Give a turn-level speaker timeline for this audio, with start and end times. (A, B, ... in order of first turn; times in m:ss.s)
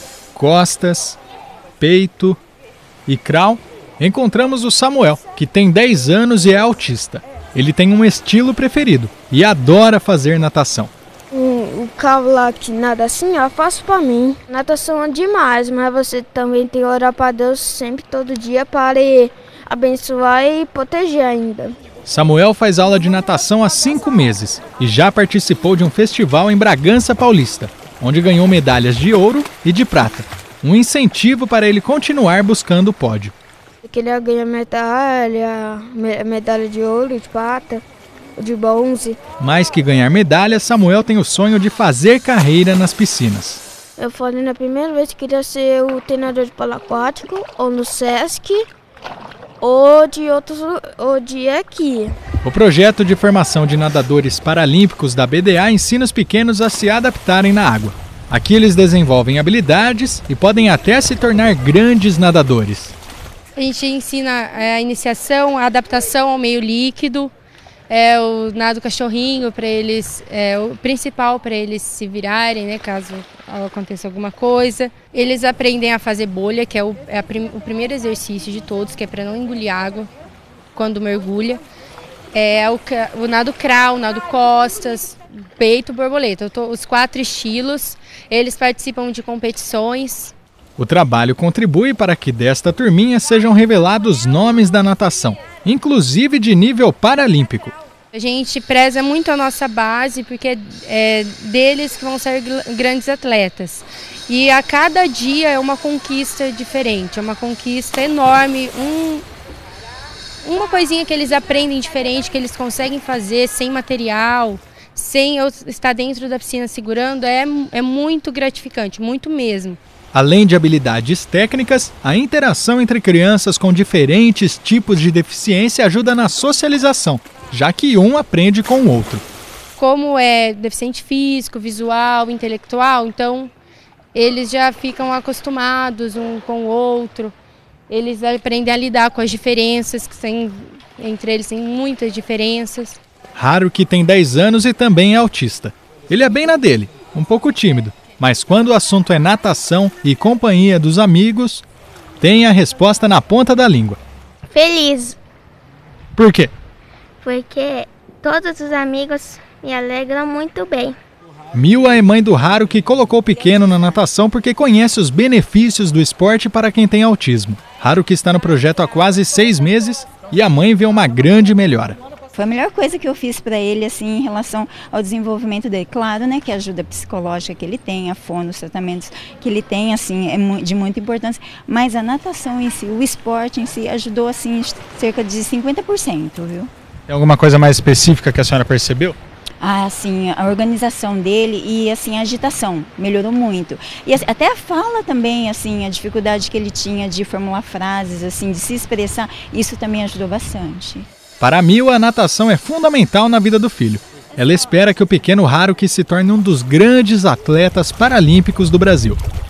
0:00.3-0:01.2 A
0:01.8-0:02.4 A
0:03.1-0:10.9 A
0:11.3-0:21.7 B
0:22.0-0:33.3 A
0:33.8-0:37.8 B
0:38.4-0:39.2 B
0:39.4-0:43.6 A
0:44.0-0:48.6 B
0:49.6-0:52.1 B
0:52.4-1:02.9 A
1:03.6-1:07.3 C
1:07.9-1:20.1 C
1:20.7-1:21.6 C
1:22.3-1:30.3 C
1:30.8-1:37.7 A
1:38.1-1:49.2 C
1:50.4-1:59.8 C
2:00.1-2:09.2 A
2:09.8-2:13.5 C
2:14.1-2:17.3 C
2:17.9-2:23.0 C
2:23.4-2:31.6 A
2:32.2-2:34.0 A
2:34.5-2:35.1 D
2:34.5-2:35.2 B
2:36.2-2:36.5 A
2:37.2-2:41.0 D
2:41.5-2:52.0 A
2:52.3-3:06.7 E
3:07.1-3:09.2 A
3:09.6-3:21.0 E
3:21.4-3:29.2 A